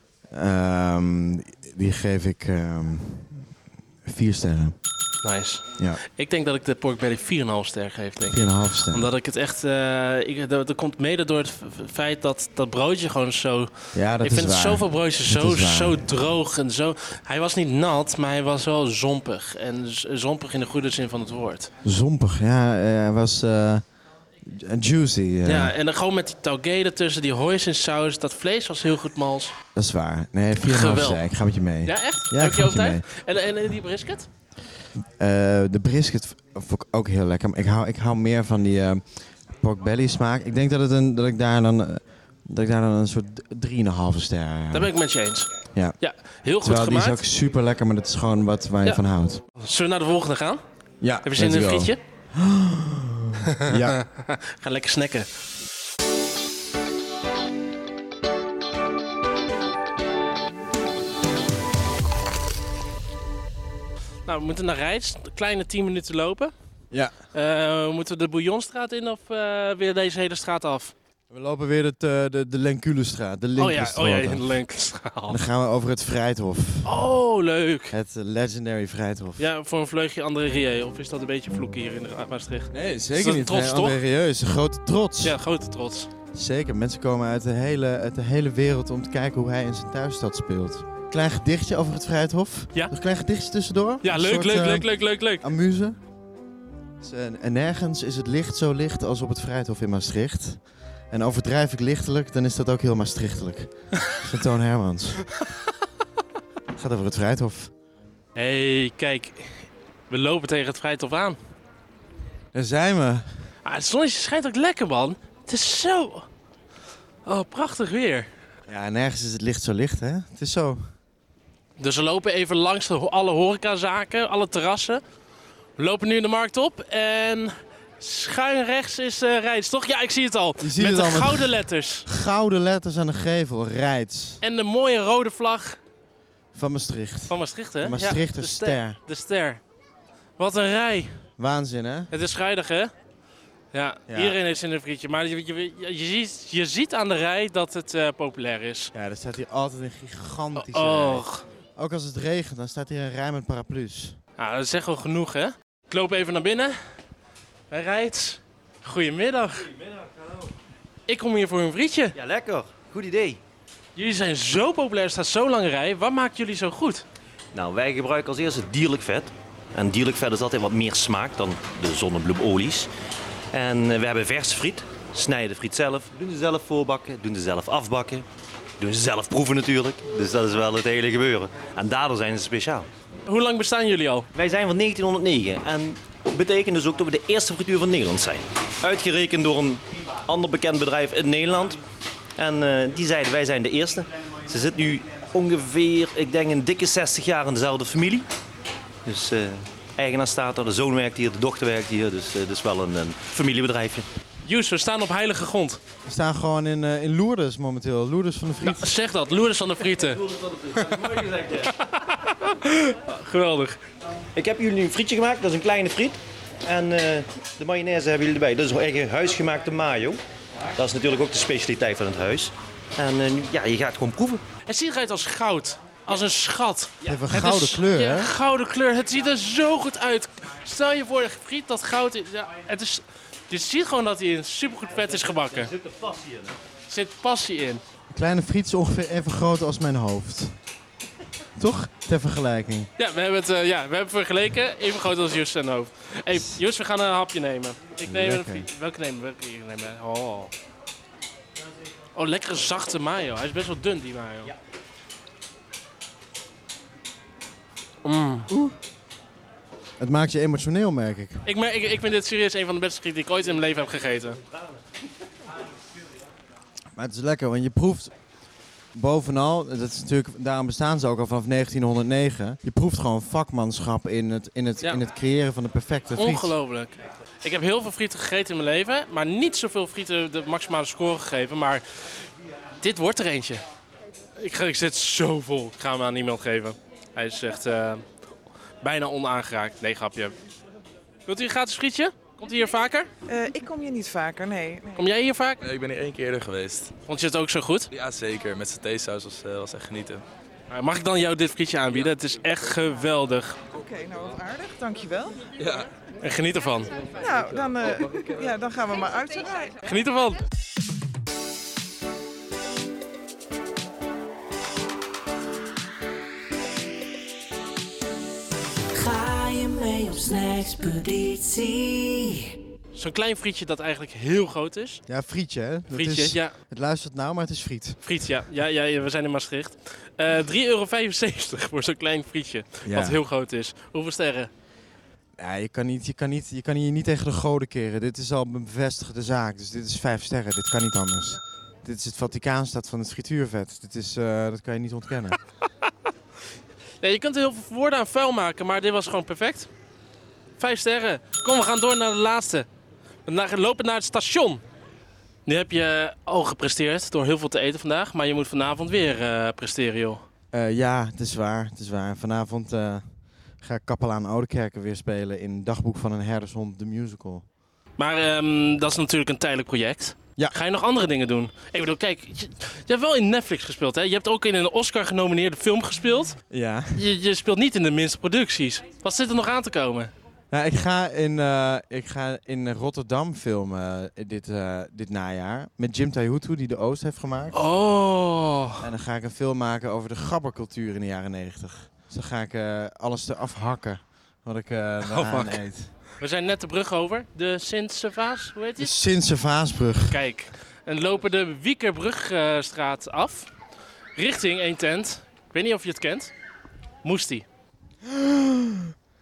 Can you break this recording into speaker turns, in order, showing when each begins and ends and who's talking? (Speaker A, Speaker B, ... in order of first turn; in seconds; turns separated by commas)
Speaker A: 0.3-3.5, Speaker A: 4.0-4.8, Speaker B: 5.2-21.7, Speaker A: 8.2-9.1, Speaker A: 13.9-16.0, Speaker A: 21.8-23.8, Speaker A: 24.4-25.7, Speaker B: 25.4-29.5, Speaker A: 29.7-33.0, Speaker B: 30.6-31.2, Speaker B: 31.8-34.3, Speaker A: 35.1-44.9, Speaker B: 44.7-47.2, Speaker A: 46.6-49.4, Speaker B: 49.6-50.6, Speaker A: 51.0-54.0, Speaker B: 51.2-52.0, Speaker B: 53.5-55.3, Speaker B: 64.2-66.5, Speaker B: 67.3-70.9, Speaker A: 71.3-74.5, Speaker B: 73.6-75.4, Speaker A: 75.3-76.9, Speaker B: 76.8-77.9, Speaker A: 77.9-79.5, Speaker B: 79.4-84.0, Speaker A: 82.7-85.4, Speaker B: 85.2-86.1, Speaker A: 86.3-96.0, Speaker B: 94.0-95.4, Speaker A: 97.0-105.2, Speaker A: 106.7-107.7, Speaker B: 108.3-111.4, Speaker A: 112.5-113.2, Speaker B: 113.6-116.2, Speaker B: 117.2-118.3, Speaker A: 118.7-120.9, Speaker B: 121.8-125.0, Speaker B: 125.8-132.0, Speaker A: 130.6-134.4, Speaker B: 134.4-135.8, Speaker A: 136.5-139.0, Speaker B: 137.3-139.6, Speaker B: 140.4-141.3, Speaker A: 141.4-142.1, Speaker B: 142.1-142.9, Speaker B: 143.7-148.9, Speaker A: 144.1-144.4, Speaker A: 148.9-151.2, Speaker B: 150.6-151.4, Speaker A: 151.8-154.2, Speaker B: 154.4-156.8, Speaker B: 157.7-159.7, Speaker B: 161.1-162.2, Speaker C: 162.1-163.4, Speaker B: 163.9-167.0, Speaker C: 167.5-172.9, Speaker C: 173.5-178.2, Speaker C: 178.8-182.9, Speaker B: 183.3-184.3, Speaker C: 184.3-191.8, Speaker C: 192.4-198.2, Speaker C: 199.1-204.1, Speaker B: 204.4-205.8, Speaker A: 206.1-208.9, Speaker B: 208.6-210.2, Speaker B: 210.7-213.8, Speaker C: 214.3-220.2, Speaker C: 220.8-224.4, Speaker B: 224.7-235.7, Speaker A: 227.0-228.3, Speaker C: 235.7-236.5, Speaker B: 236.9-237.8, Speaker A: 238.1-240.6, Speaker A: 241.6-242.9, Speaker B: 243.0-250.5, Speaker A: 248.0-248.7, Speaker B: 252.1-254.5, Speaker B: 258.0-258.5, Speaker A: 258.5-258.7, Speaker A: 260.0-261.4, Speaker B: 261.4-264.4, Speaker A: 266.9-268.1, Speaker A: 268.9-276.5, Speaker B: 276.1-281.8, Speaker B: 282.8-283.6, Speaker B: 284.4-288.0, Speaker B: 288.8-290.4, Speaker B: 291.2-293.1, Speaker D: 293.3-295.0, Speaker B: 295.0-295.6, Speaker E: 295.6-296.9, Speaker B: 297.1-297.9, Speaker E: 297.9-300.2, Speaker B: 300.7-303.6, Speaker D: 303.7-305.4, Speaker E: 305.6-305.9, Speaker B: 306.2-306.9, Speaker D: 307.1-309.8, Speaker B: 309.8-310.4, Speaker F: 318.9-322.5, Speaker B: 322.9-325.0, Speaker A: 325.1-328.0, Speaker B: 325.9-326.5, Speaker B: 328.0-334.5, Speaker A: 332.9-333.2, Speaker A: 335.4-345.4, Speaker B: 347.0-349.7, Speaker B: 350.6-352.7, Speaker B: 353.2-354.6, Speaker B: 355.4-360.2, Speaker A: 360.5-363.1, Speaker A: 363.6-367.4, Speaker B: 368.0-376.4, Speaker A: 376.5-377.1, Speaker B: 376.9-380.1, Speaker A: 380.5-387.6, Speaker B: 387.5-388.9, Speaker A: 388.8-395.9, Speaker B: 395.0-395.6, Speaker B: 396.2-398.9, Speaker A: 398.8-400.2, Speaker B: 400.1-403.5, Speaker B: 404.1-406.3, Speaker B: 407.0-407.4, Speaker A: 408.0-408.9